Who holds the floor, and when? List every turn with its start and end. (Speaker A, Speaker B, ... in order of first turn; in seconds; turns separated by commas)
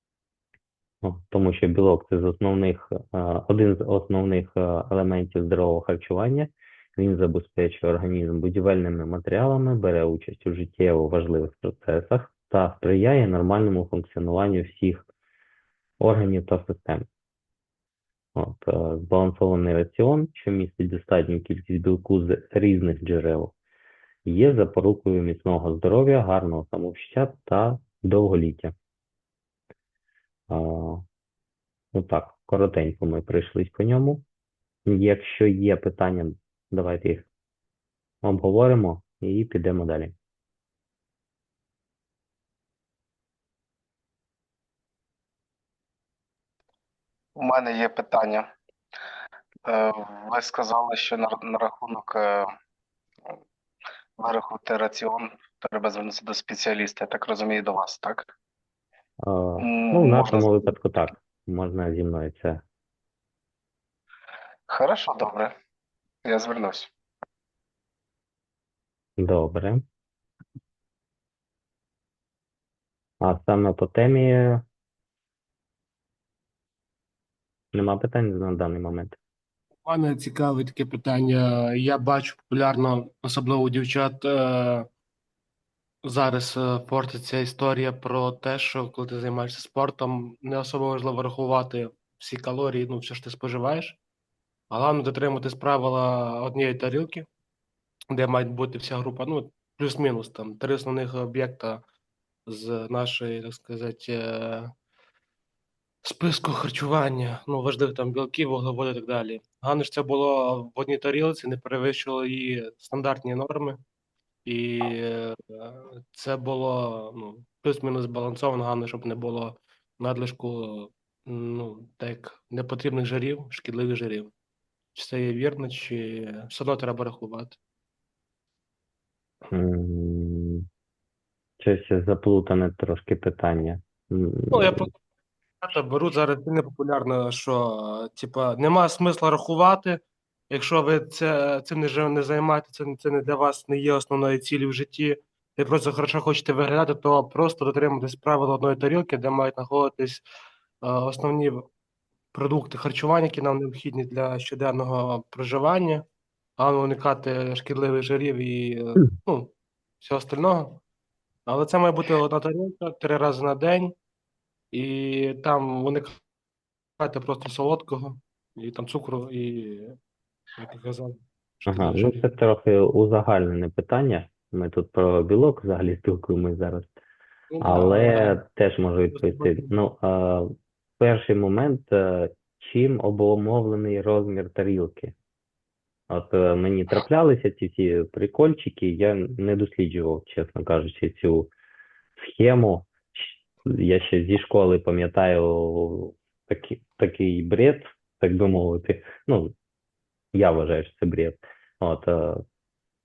Speaker A: 1.0-15.1, Speaker A: 16.0-17.0, Speaker A: 18.4-23.5, Speaker A: 24.2-28.7, Speaker A: 30.5-31.0, Speaker A: 31.9-34.2, Speaker A: 34.9-37.3, Speaker A: 38.2-40.1, Speaker B: 47.4-48.5, Speaker B: 49.7-52.5, Speaker B: 54.2-58.2, Speaker A: 59.2-62.6, Speaker B: 59.6-60.7, Speaker B: 64.7-65.5, Speaker B: 66.2-66.9, Speaker A: 69.2-69.8, Speaker A: 73.2-74.6, Speaker A: 77.7-79.2, Speaker C: 79.8-84.9, Speaker C: 86.0-94.0, Speaker C: 94.7-97.3, Speaker C: 98.1-101.8, Speaker C: 102.5-104.7, Speaker C: 106.0-113.8, Speaker C: 114.5-124.3, Speaker C: 124.9-127.6, Speaker A: 129.5-130.7, Speaker A: 131.6-134.9, Speaker C: 134.5-134.9, Speaker C: 135.6-150.2, Speaker C: 150.8-151.6, Speaker C: 152.3-156.0, Speaker C: 156.6-160.8, Speaker C: 161.5-163.9, Speaker C: 164.7-166.2, Speaker C: 167.0-169.9, Speaker C: 170.6-172.3, Speaker A: 171.7-176.9, Speaker C: 177.5-178.4, Speaker A: 177.6-185.1, Speaker C: 179.1-179.7, Speaker A: 186.1-191.5, Speaker A: 192.2-199.5, Speaker A: 200.3-202.4